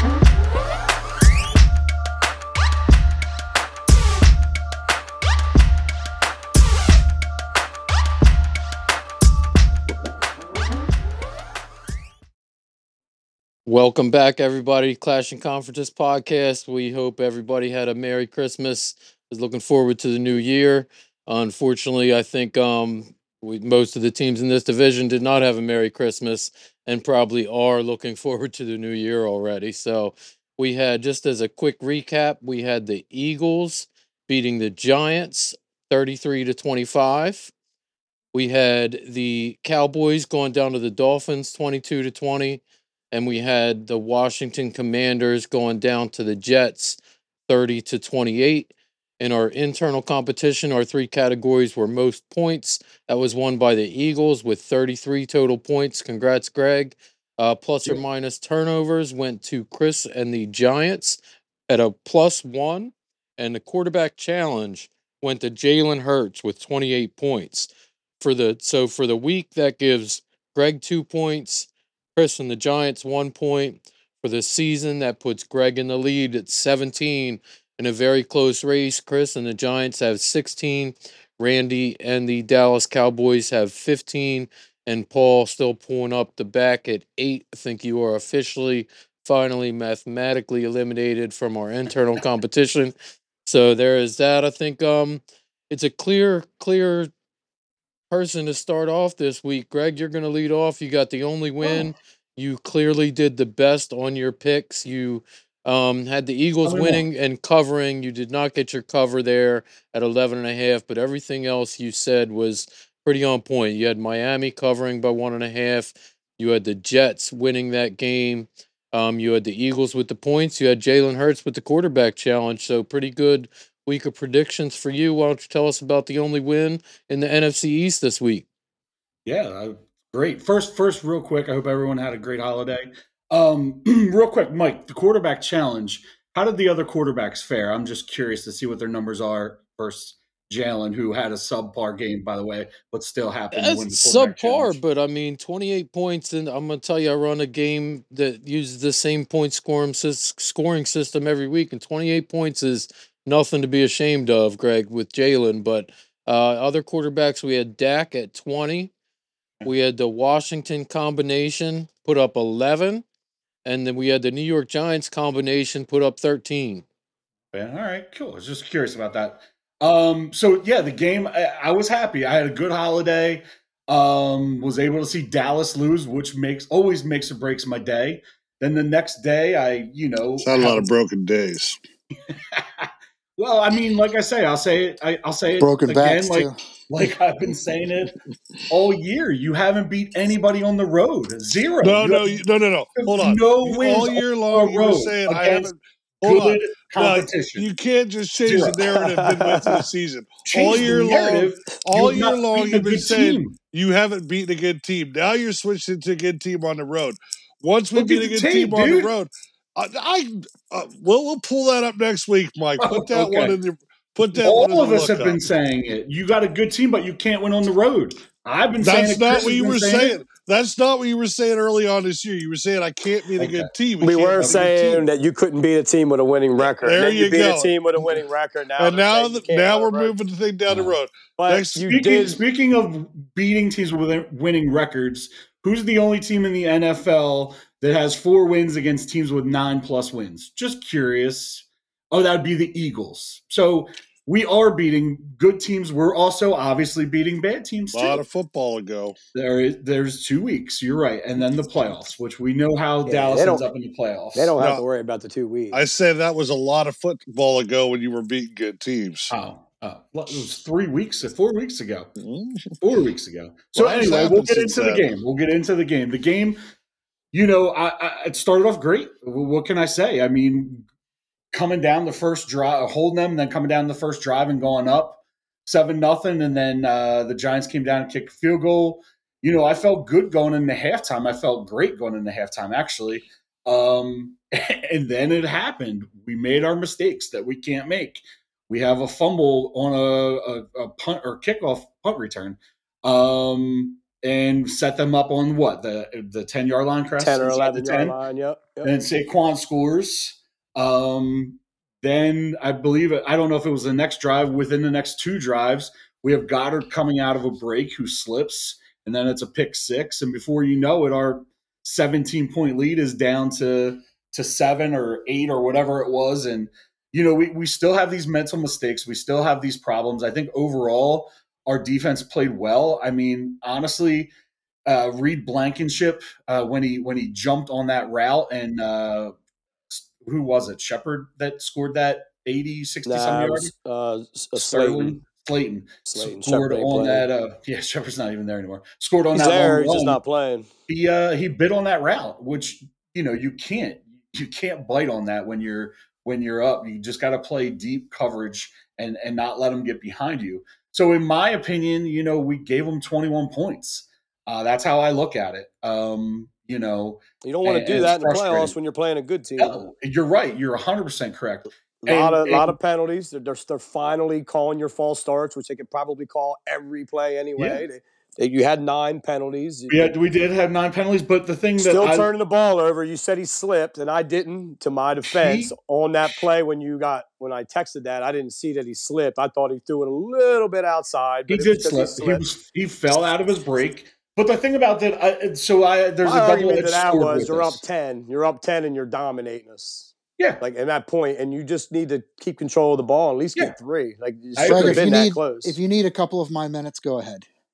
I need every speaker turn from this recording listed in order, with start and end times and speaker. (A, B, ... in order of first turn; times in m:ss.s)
0:13.7-0:37.5 A
0:38.3-0:42.6 A
0:43.1-1:07.7 A
1:08.2-1:32.9 A
1:33.5-1:37.1 A
1:38.1-2:08.5 A
1:46.6-1:47.1 B
2:09.3-2:24.8 B
2:23.5-2:38.9 A
2:39.6-2:43.0 A
2:43.6-2:46.8 A
2:47.5-3:00.9 B
3:00.4-3:01.8 C
3:02.3-3:08.2 B
3:05.6-3:06.6 D
3:08.7-3:12.4 B
3:11.8-3:35.4 C
3:13.0-3:15.7 B
3:16.2-3:17.7 B
3:18.5-3:18.9 B
3:19.1-3:19.8 E
3:20.5-3:23.6 B
3:28.0-3:29.1 B
3:32.8-3:33.6 B
3:34.4-3:40.2 B
3:38.8-3:45.0 C
3:43.4-3:43.7 B
3:44.0-3:50.1 E
3:46.8-3:48.2 C
3:48.8-3:51.9 C
3:50.7-3:51.0 B
3:51.4-3:52.4 E
3:51.9-4:08.2 B
4:07.9-4:09.2 C
4:09.3-4:14.5 B
4:13.1-4:13.6 E
4:14.4-4:15.8 E
4:14.6-4:14.8 C
4:15.7-4:19.3 C
4:19.3-4:22.1 B
4:22.2-4:22.8 C
4:22.8-4:26.6 B
4:23.8-4:25.0 C
4:27.3-4:30.9 B
4:31.5-4:58.2 B
4:57.2-4:58.9 E
4:58.8-5:24.3 B
5:24.9-5:29.4 B
5:29.9-5:33.7 B
5:33.0-5:35.2 E
5:34.6-5:40.2 B
5:36.1-5:37.3 E
5:39.3-5:40.7 E
5:40.9-5:58.7 B
5:57.4-5:59.8 E
5:59.6-6:02.7 B
6:02.0-6:10.1 E
6:07.6-6:07.8 B
6:09.9-6:12.3 B
6:11.8-6:22.4 E
6:15.3-6:15.7 B
6:21.5-6:27.8 B
6:26.2-6:35.8 E
6:34.6-6:35.2 B
6:34.6-6:37.4 D